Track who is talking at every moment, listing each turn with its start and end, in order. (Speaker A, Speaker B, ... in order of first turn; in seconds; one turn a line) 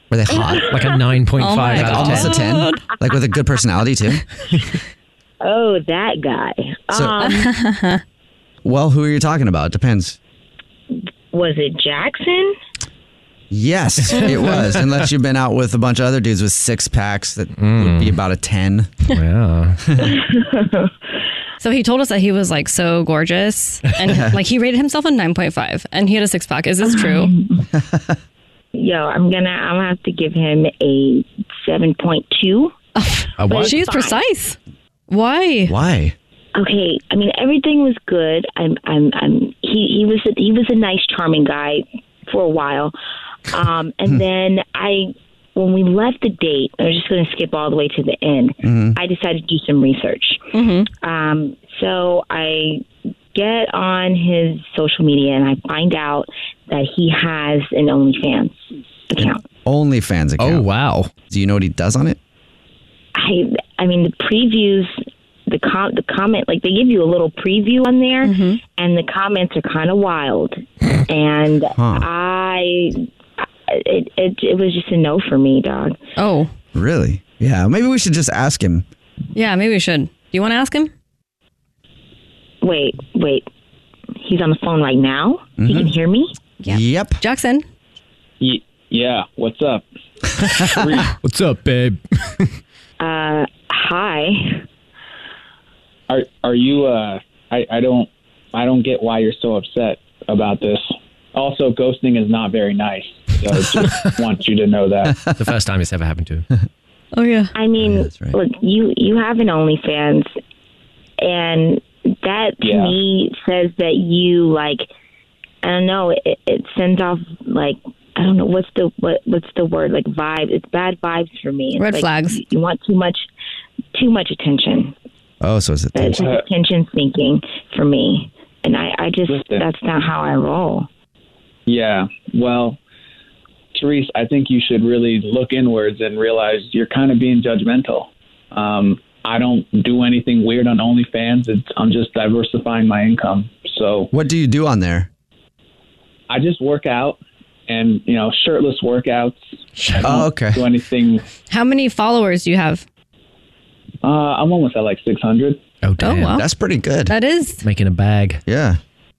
Speaker A: 0.1-0.7
Speaker B: 0.3-0.9
Speaker C: 0.7-2.3
Speaker D: 1.4-2.8
Speaker A: 1.7-4.2
Speaker B: 5.4-7.5
Speaker A: 6.9-7.2
Speaker D: 7.2-8.0
Speaker A: 8.6-10.2
Speaker B: 11.3-12.6
Speaker A: 13.5-19.0
Speaker C: 14.1-14.7
Speaker C: 17.6-18.2
Speaker C: 19.1-19.9
Speaker B: 20.0-20.9
Speaker D: 21.6-27.3
Speaker A: 24.1-24.3
Speaker B: 26.8-27.7
Speaker A: 27.8-28.1
Speaker B: 28.7-32.7
Speaker D: 33.0-34.6
Speaker C: 33.4-33.8
Speaker B: 33.4-34.2
Speaker D: 35.1-35.7
Speaker A: 35.7-36.1
Speaker B: 36.5-42.9
Speaker B: 43.5-59.4
Speaker A: 48.6-49.0
Speaker D: 50.5-50.9
Speaker A: 59.2-62.2
Speaker C: 60.4-61.1
Speaker B: 63.1-73.0
Speaker D: 68.2-68.6
Speaker A: 71.8-72.0
Speaker B: 73.7-76.0
Speaker D: 76.2-76.5
Speaker A: 76.7-78.8
Speaker D: 79.3-80.9
Speaker B: 82.6-83.5
Speaker B: 84.2-86.3
Speaker A: 85.6-85.9
Speaker D: 86.6-87.6
Speaker A: 86.7-87.2
Speaker E: 88.4-89.8
Speaker C: 90.5-92.5
Speaker E: 90.6-91.1
Speaker B: 93.0-94.6
Speaker E: 96.1-105.2
Speaker C: 105.2-106.5
Speaker D: 107.1-107.5
Speaker B: 107.5-110.3
Speaker A: 107.8-108.3
Speaker B: 111.2-114.9
Speaker E: 112.6-112.9
Speaker B: 115.6-123.3
Speaker D: 121.8-122.4
Speaker B: 123.9-124.9
Speaker A: 125.4-126.2
Speaker B: 125.9-130.9
Speaker E: 129.3-129.6
Speaker E: 131.7-132.8
Speaker E: 133.7-144.1
Speaker A: 144.1-145.1
Speaker E: 146.3-149.4
Speaker C: 149.8-150.2
Speaker E: 149.9-151.2
Speaker A: 150.0-150.7
Speaker D: 151.5-152.8
Speaker E: 154.0-155.6
Speaker C: 155.8-156.4
Speaker D: 156.0-156.4
Speaker A: 156.3-157.1
Speaker D: 157.1-157.6
Speaker C: 157.6-158.4
Speaker A: 158.4-158.8